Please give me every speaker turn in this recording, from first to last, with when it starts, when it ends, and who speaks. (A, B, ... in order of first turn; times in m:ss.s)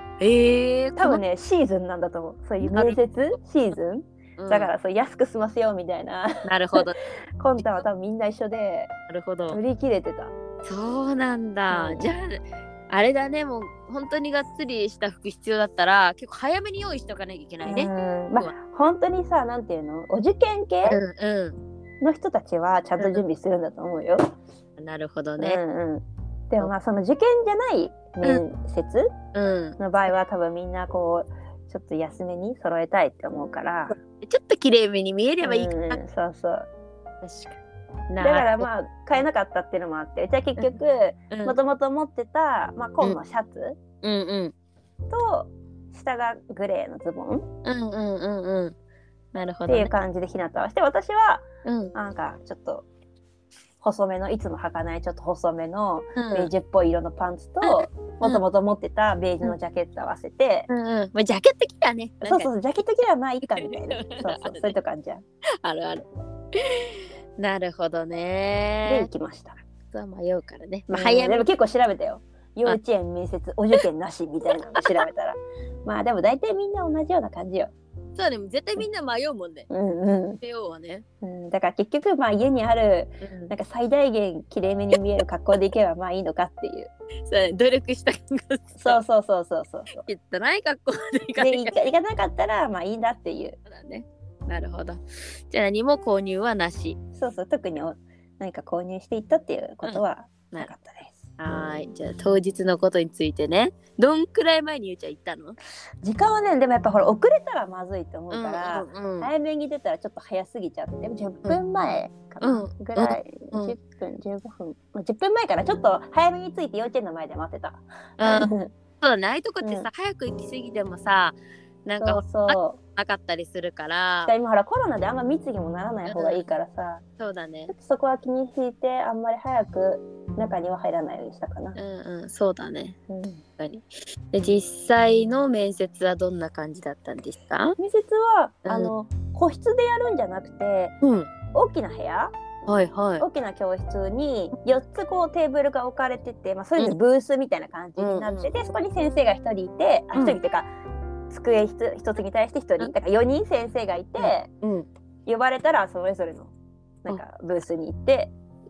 0:00.2-0:01.2 A
0:01.0-0:06.8 B
0:02.6-0:03.0 A
0:04.4-0:04.7 A
0:06.4-0:07.0 A
0:07.4-0:08.9 B
0:09.1-0:09.6 A
0:09.5-0:10.3 B
0:10.6-0:18.5 A
0:11.7-0:12.1 B
0:17.6-0:21.0 B
0:20.8-0:21.6 A
0:22.0-0:24.3 B
0:24.8-0:25.6 A
0:25.4-0:29.1 B
0:29.3-0:29.8 A
0:29.8-0:34.0 B
0:33.9-0:36.0 A
0:35.4-0:36.7 B
0:37.2-0:38.7 A
0:38.2-0:43.8 B
0:41.3-0:41.6 A
0:44.0-0:44.5 A
0:45.1-0:47.4 B
0:47.6-0:48.7 A
0:49.3-0:50.0 A
0:49.7-0:52.8 B
0:51.6-0:51.9 A
0:53.8-1:00.7 B
0:56.2-0:56.5 A
0:57.6-0:58.4 A
1:00.7-1:02.5 A
1:02.2-1:05.2 B
1:03.6-1:04.7 A
1:05.6-1:06.0 A
1:06.6-1:09.1 A
1:08.8-1:09.6 B
1:09.9-1:11.5 A
1:10.9-1:17.7 B
1:18.2-1:19.7 A
1:19.7-1:20.4 B
1:20.4-1:21.0 A
1:21.2-1:26.9 B
1:23.2-1:23.5 A
1:27.3-1:29.0 A
1:28.8-1:30.0 B
1:29.9-1:31.7 A
1:31.4-1:33.6 B
1:33.6-1:37.0 A
1:37.2-1:41.2 B
1:39.8-1:40.7 A
1:41.4-1:45.6 A
1:46.0-1:58.7 B
1:48.3-1:49.3 A
1:52.4-1:53.8 A
1:58.2-1:58.5 A
1:59.0-2:04.3 A
1:59.6-1:59.9 B
2:02.0-2:02.8 B
2:04.2-2:07.0 B
2:06.0-2:06.5 A
2:07.2-2:07.7 A
2:07.7-2:11.8 B
2:11.8-2:13.0 A
2:13.1-2:13.4 B
2:13.6-2:17.8 A
2:17.8-2:21.0 B
2:18.6-2:18.9 A
2:21.0-2:21.3 A
2:21.5-2:22.3 B
2:22.6-2:23.2 A
2:23.2-2:30.7 B
2:28.0-2:28.5 A
2:30.1-2:30.4 A
2:31.3-2:34.5 B
2:34.2-2:34.9 A
2:35.3-2:36.5 B
2:37.0-2:38.3 B